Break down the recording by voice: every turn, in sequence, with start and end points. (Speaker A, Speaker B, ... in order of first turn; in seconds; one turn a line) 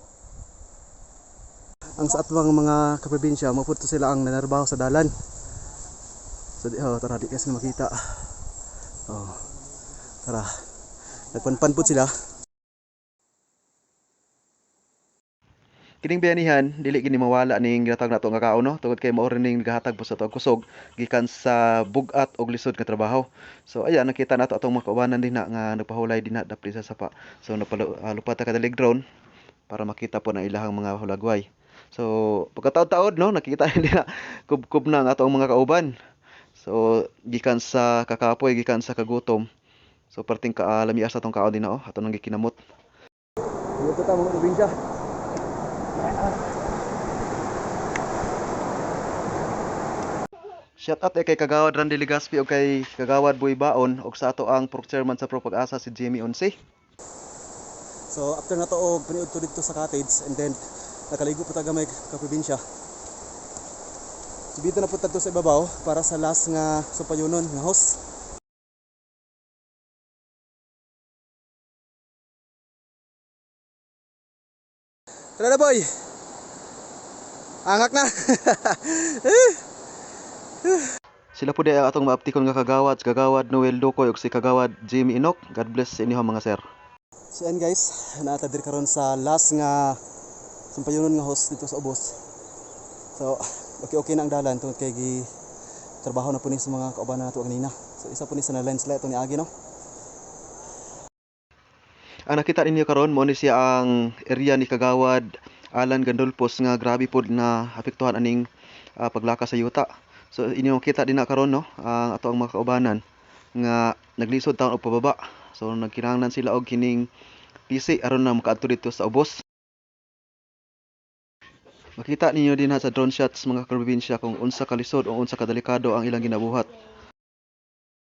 Speaker A: 2.0-5.1
Speaker A: 6.6-8.3
Speaker A: 9.1-9.4
Speaker A: 10.2-10.6
Speaker A: 11.3-12.1
Speaker B: 16.0-29.0
Speaker B: 29.7-36.0
Speaker B: 36.6-39.5
Speaker B: 40.1-42.6
Speaker A: 43.8-44.7
Speaker B: 50.8-56.5
Speaker A: 58.1-60.6
Speaker A: 61.1-62.6
Speaker A: 64.5-68.0
Speaker A: 75.4-75.9
Speaker A: 77.6-79.6
Speaker B: 81.3-86.6
Speaker A: 87.3-90.0
Speaker A: 90.7-92.2
Speaker A: 93.2-95.3
Speaker A: 96.0-99.5
Speaker B: 102.3-113.0
Speaker B: 113.5-117.1
Speaker B: 117.7-119.4
Speaker B: 122.0-126.7